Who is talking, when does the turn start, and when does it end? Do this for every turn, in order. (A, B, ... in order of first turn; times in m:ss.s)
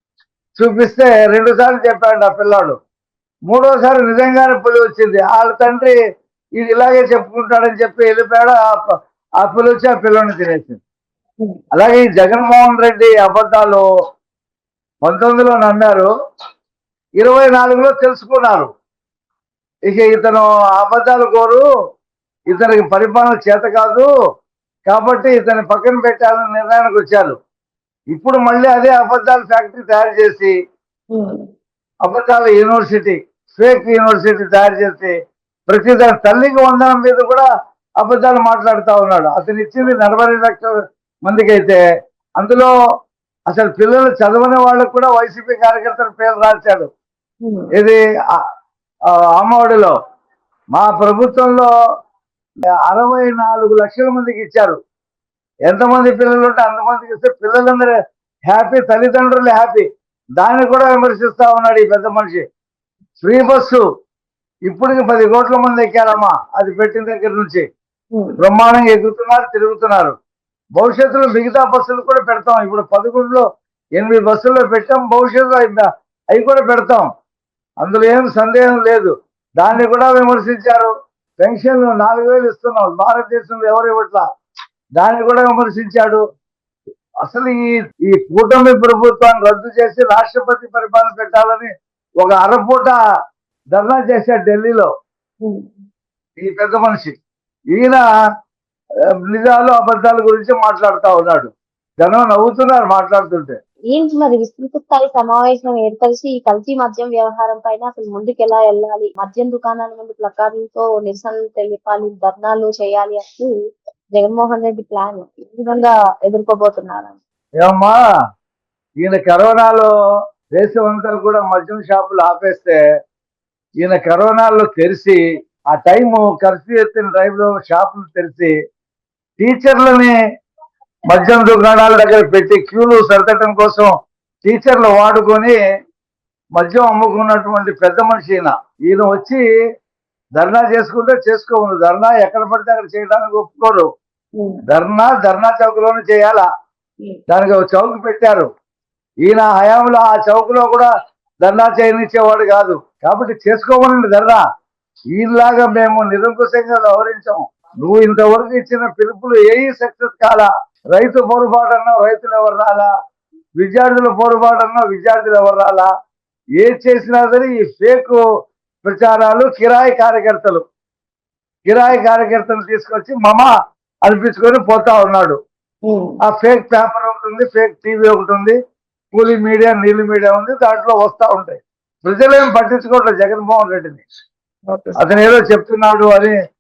0:00.6-0:02.8 A
0:03.5-0:06.0 A
0:06.6-0:08.8 A
0:09.4-0:10.8 A
0:11.8-0:13.8 A
0:15.0-0:16.1 A
0:17.2-0:18.7 A
0:19.9-0:21.6 A
0:22.5-0:24.1 A
0:24.9-0:27.4 A
0:28.1-0:30.5 A
0:31.1-0:31.5 B
0:32.0-0:35.1 A
0:35.7-0:37.5 A
0:38.0-0:40.7 A
0:41.2-0:41.8 A
0:42.4-0:42.7 A
0:43.5-0:46.9 A
0:47.4-0:47.7 B
0:47.8-0:48.4 A
0:49.4-0:49.9 A
0:50.7-0:51.7 A
0:52.9-0:54.8 A
0:55.7-0:57.9 A
0:58.5-0:59.9 A
1:00.4-1:02.4 A
1:03.2-1:03.8 A
1:04.7-1:07.6 A
1:08.4-1:10.2 A
1:10.8-1:13.4 A
1:14.0-1:17.1 A
1:17.8-1:24.2 A
1:25.0-1:26.2 A
1:27.3-1:33.0 A
1:33.7-1:34.9 A
1:35.4-1:35.8 B
1:36.4-1:37.1 A
1:37.7-1:38.0 A
1:39.3-1:43.6 A
1:43.9-1:53.5 B
1:54.2-1:57.2 B
1:57.6-1:58.0 A
1:59.0-1:59.9 A
2:00.6-2:02.8 A
2:03.8-2:05.2 A
2:05.7-2:08.5 A
2:09.4-2:10.1 A
2:11.1-2:13.9 A
2:14.4-2:15.6 A
2:16.6-2:19.4 A
2:20.4-2:23.9 A
2:24.7-2:26.5 A
2:27.3-2:28.5 A
2:29.2-2:30.9 A
2:31.4-2:34.4 A
2:35.2-2:42.9 A
2:43.6-2:45.9 A
2:46.6-2:48.2 A
2:48.8-2:50.6 A
2:51.7-2:53.5 A
2:54.0-2:55.4 A
2:55.9-2:56.2 B
2:56.3-2:58.6 A
2:59.1-3:04.0 A
3:04.7-3:05.0 B
3:05.0-3:06.4 A